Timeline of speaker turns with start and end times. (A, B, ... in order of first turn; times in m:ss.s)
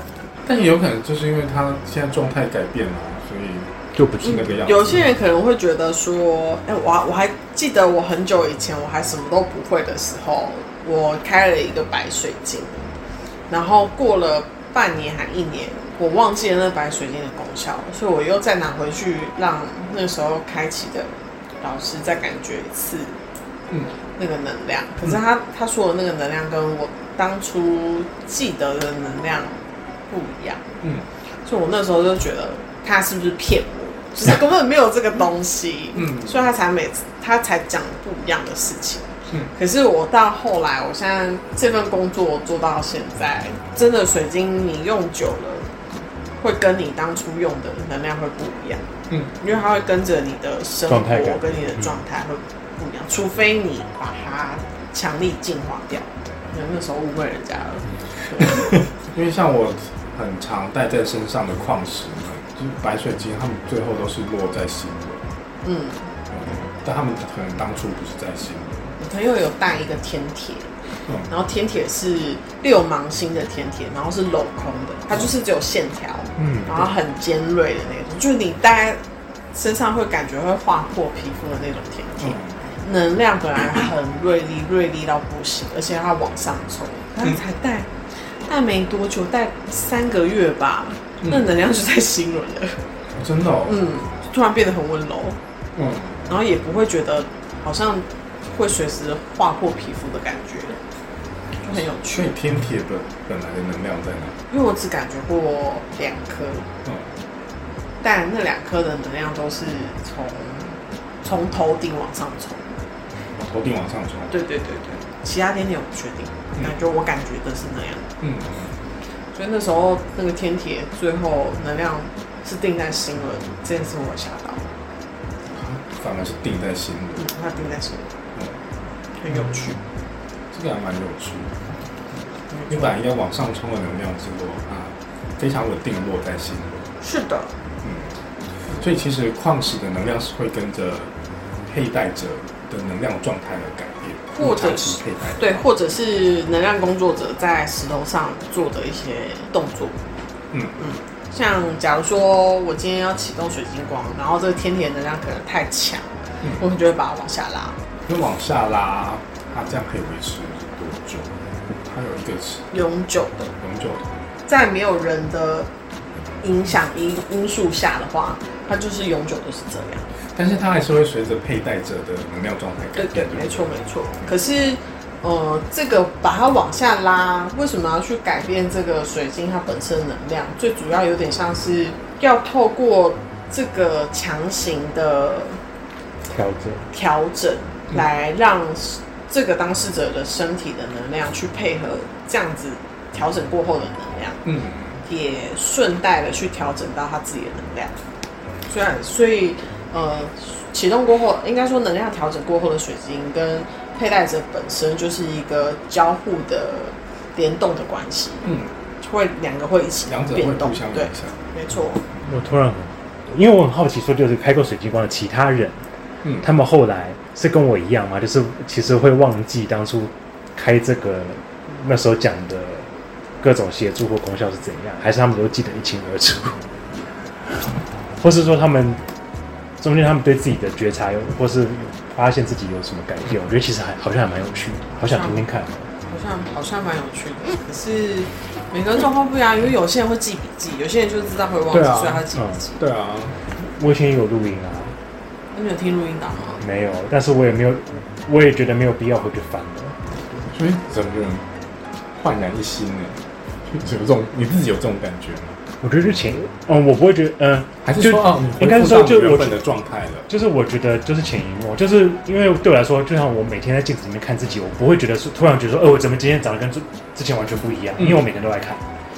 0:00.4-0:05.0 A
0:03.9-0:04.6 B
0:04.2-0:12.9 C
0:13.5-0:23.2 C
0:24.2-0:29.6 C
0:30.1-0:30.8 C
0:31.4-0:45.7 C
0:35.9-0:36.4 A
0:46.4-0:48.8 C
0:49.4-0:58.8 C
0:50.9-0:51.6 B
0:58.4-1:05.3 A
1:05.6-1:06.1 C
1:06.3-1:09.0 A
1:09.0-1:10.7 C
1:11.3-1:19.0 C
1:16.4-1:16.9 B
1:19.5-1:27.9 C
1:22.2-1:22.6 A
1:28.4-1:32.8 C
1:31.2-1:31.5 A
1:33.1-1:33.8 A
1:33.6-1:35.4 C
1:35.8-1:36.3 A
1:36.3-1:40.8 C
1:41.6-1:42.3 C
1:41.7-1:44.4 A
1:44.5-1:46.7 C
1:46.8-1:47.1 A
1:48.0-1:52.8 C
1:53.4-1:54.4 A
1:54.3-1:58.1 C
1:58.2-1:58.8 A
1:59.3-2:04.6 C
2:05.5-2:07.3 A
2:07.2-2:08.1 C
2:08.3-2:08.6 A
2:09.2-2:09.8 C
2:10.5-2:11.6 A
2:12.5-2:12.9 C
2:12.7-2:16.9 A
2:17.0-2:17.5 C
2:17.8-2:18.2 A
2:18.7-2:21.1 A
2:21.7-2:25.7 A
2:24.3-2:30.0 C
2:30.8-2:37.8 C
2:38.1-2:42.7 A
2:42.7-2:43.5 C
2:43.6-2:44.1 A
2:44.5-2:45.7 C
2:46.4-2:50.1 C
2:50.3-2:53.7 A
2:53.0-3:05.6 C
3:06.3-3:06.9 B
3:06.9-3:14.4 C
3:14.4-3:15.0 A
3:15.0-3:17.9 C
3:18.7-3:32.0 C
3:28.4-3:28.7 A
3:30.1-3:31.4 A
3:32.2-3:35.8 B
3:36.4-3:46.6 B
3:47.4-3:49.0 B
3:49.8-3:55.9 B
3:55.0-3:55.5 C
3:56.0-4:02.8 C
4:01.7-4:03.4 A
4:02.3-4:02.6 B
4:03.6-4:04.9 B
4:05.5-4:06.6 C
4:06.6-4:10.4 B
4:10.5-4:11.5 A
4:12.1-4:15.6 A
4:15.8-4:19.6 B
4:17.8-4:20.3 A
4:20.3-4:28.8 B
4:28.0-4:28.3 A